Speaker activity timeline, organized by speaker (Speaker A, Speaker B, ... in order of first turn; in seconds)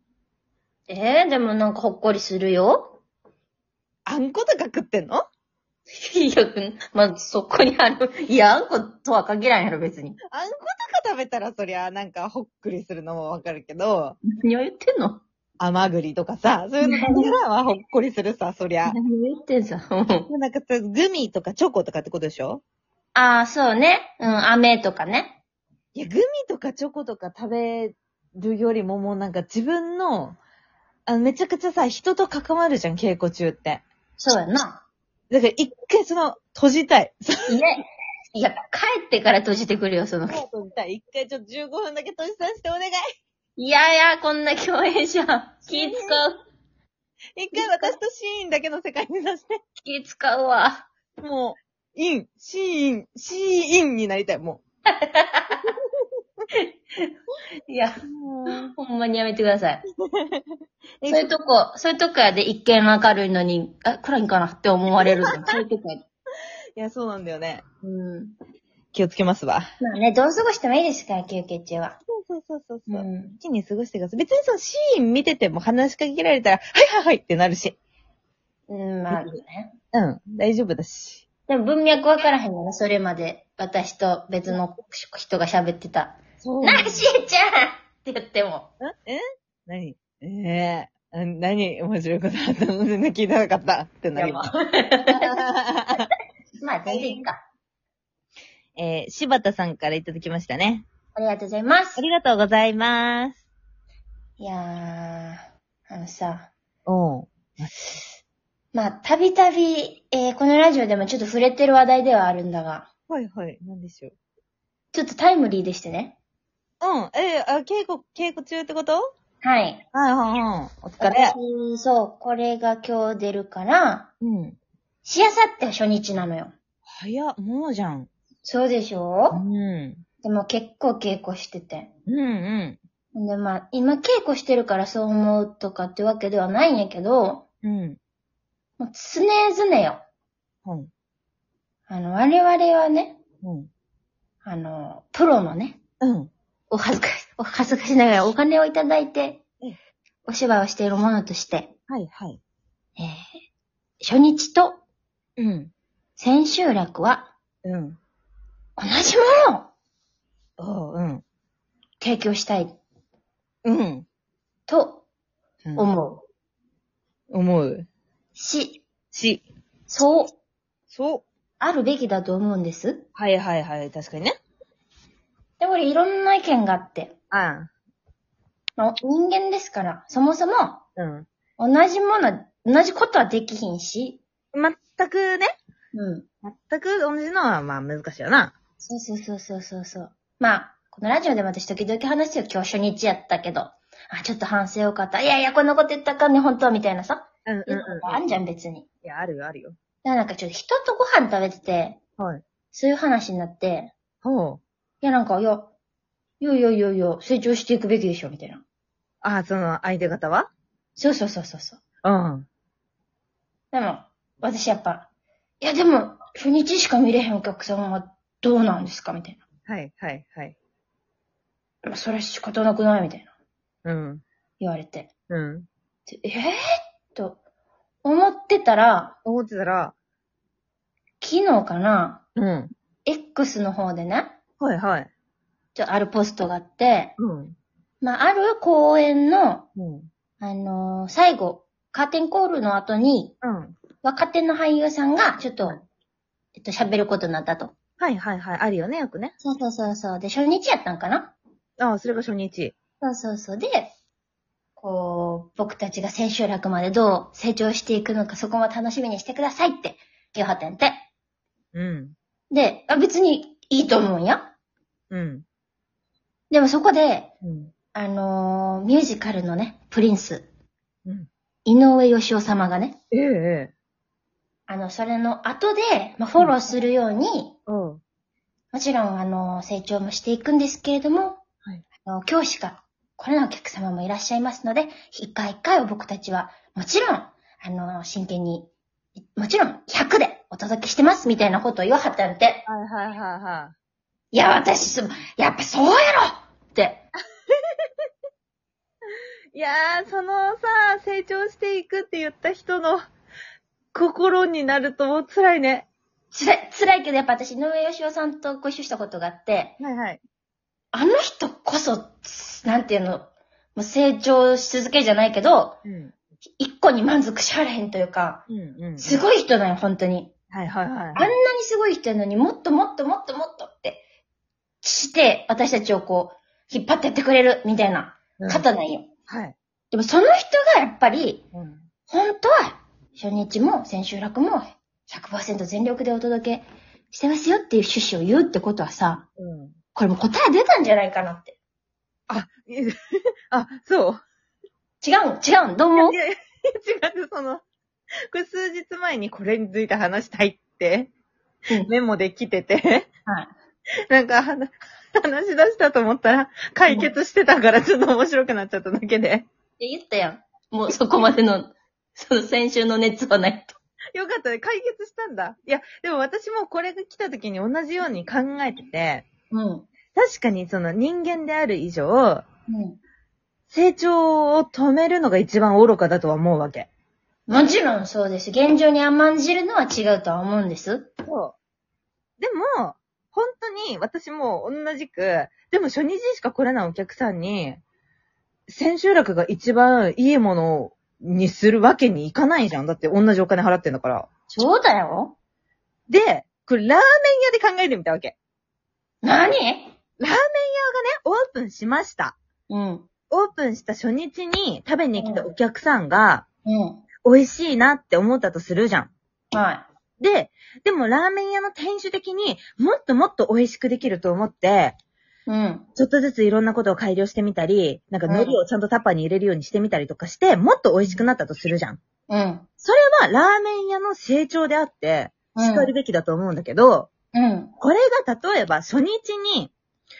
Speaker A: 0.9-3.0, 5.9-10.2, 14.3-15.2, 16.8-17.3, 18.9-20.3, 23.1-25.4, 34.2-34.8, 37.5-37.8, 38.3-40.4, 43.6-46.3, 47.5-47.9, 49.8-50.9, 54.9-55.6, 56.6-57.1, 57.7-59.8, 61.1-66.0, 67.8-68.3, 69.8-72.0, 72.9-73.4, 78.7-79.7, 81.5-88.7, 94.2-95.5, 96.0-97.4, 101.1-102.0, 104.4-106.5, 108.7-112.9, 114.9-116.2, 119.4-119.8, 121.0-124.1, 125.0-126.5, 128.4-129.4, 130.2-131.9, 133.1-137.4, 138.8-140.0, 141.9-143.2, 144.4-145.8, 146.7-149.4, 150.2-151.7, 153.0-153.3, 154.0-154.8, 156.2-157.3, 158.8-159.7, 162.0-162.8, 164.7-165.0, 165.8-166.2, 168.3-168.8, 169.9-170.3, 171.6-173.0, 175.6-177.1, 178.8-180.8, 181.6-184.2, 185.9-186.2, 188.8-198.9, 200.0-202.0, 202.7-203.9, 205.0-205.7, 206.4-208.6, 211.0-211.8, 213.7-215.1, 215.6-219.4, 221.8-223.3, 224.6-225.1, 226.1-226.5, 227.1-227.4, 228.0-229.2, 231.2-232.2, 233.0-234.3, 235.7-237.2, 238.0-239.7, 240.4-243.3, 244.0-245.8, 246.5-247.7, 249.4-251.3, 253.0-253.9, 254.8-261.0, 262.5-264.5, 266.5-267.3, 267.9-270.5, 271.6-273.0, 274.7-277.6, 278.7-281.4, 282.1-292.6, 294.3-297.0, 306.3-309.8, 310.9-315.8, 316.6-318.4, 319.0-320.3, 321.1-324.0, 324.8-329.1, 329.9-331.4, 332.1-339.2, 339.9-341.6, 345.0-346.1, 359.8-363.7, 369.5-369.9, 372.7-373.0, 377.5-381.1, 394.5-395.3, 399.2-399.9, 402.7-403.1, 405.1-405.5, 406.6-407.0, 409.5-409.9, 415.5-415.9, 418.3-418.6, 422.3-422.7, 425.5-425.9, 427.3-427.7
Speaker B: 4.0-5.2, 10.3-14.2, 15.6-19.0, 20.3-22.6, 25.9-30.4, 31.1-33.8, 35.3-37.3, 40.3-43.0, 45.7-46.2, 47.4-49.6, 51.2-54.6, 58.1-58.7, 60.1-60.5, 61.0-61.3, 66.8-67.6, 68.9-69.6, 72.1-77.8, 79.9-81.2, 86.4-87.0, 88.8-94.4, 95.2-96.1, 96.9-97.2, 98.8-100.8, 102.0-103.4, 106.8-107.7, 113.1-114.1, 116.8-119.1, 119.9-121.3, 124.2-124.6, 127.0-128.1, 129.3-130.0, 132.1-132.8, 137.6-138.0, 140.6-140.9, 143.4-143.7, 146.0-146.3, 151.9-152.4, 155.4-155.7, 157.6-158.0, 160.6-161.2, 163.6-164.0, 167.3-167.9, 169.1-169.4, 170.9-171.2, 173.1-174.3, 177.3-177.7, 180.9-181.2, 184.5-185.5, 186.4-188.5, 197.4-198.2, 199.0-199.8, 204.2-204.6, 209.2-210.5, 212.0-212.5, 219.7-220.5, 223.8-224.2, 225.3-225.7, 229.2-229.9, 232.3-232.7, 234.6-235.1, 237.2-237.5, 239.8-240.1, 243.4-243.7, 248.0-249.3, 251.8-252.7, 261.7-262.1, 265.1-265.4, 267.4-267.7, 273.1-273.7, 277.7-278.0, 292.7-293.7, 299.5-303.0, 303.9-305.9, 309.8-310.2, 315.8-316.1, 318.5-319.2, 320.5-321.3, 328.4-328.6, 329.3-329.5, 331.5-331.8, 339.4-339.8, 342.3-343.0, 343.5-344.2, 345.9-347.6, 348.3-351.1, 351.8-353.1, 354.1-359.4, 364.1-369.2, 370.1-372.4, 373.7-376.9, 381.2-381.6, 382.4-387.8, 388.7-394.3, 396.1-398.3, 400.2-402.4, 403.3-406.4, 407.2-409.1, 410.2-414.9, 415.9-422.0, 422.8-427.1, 427.8-429.7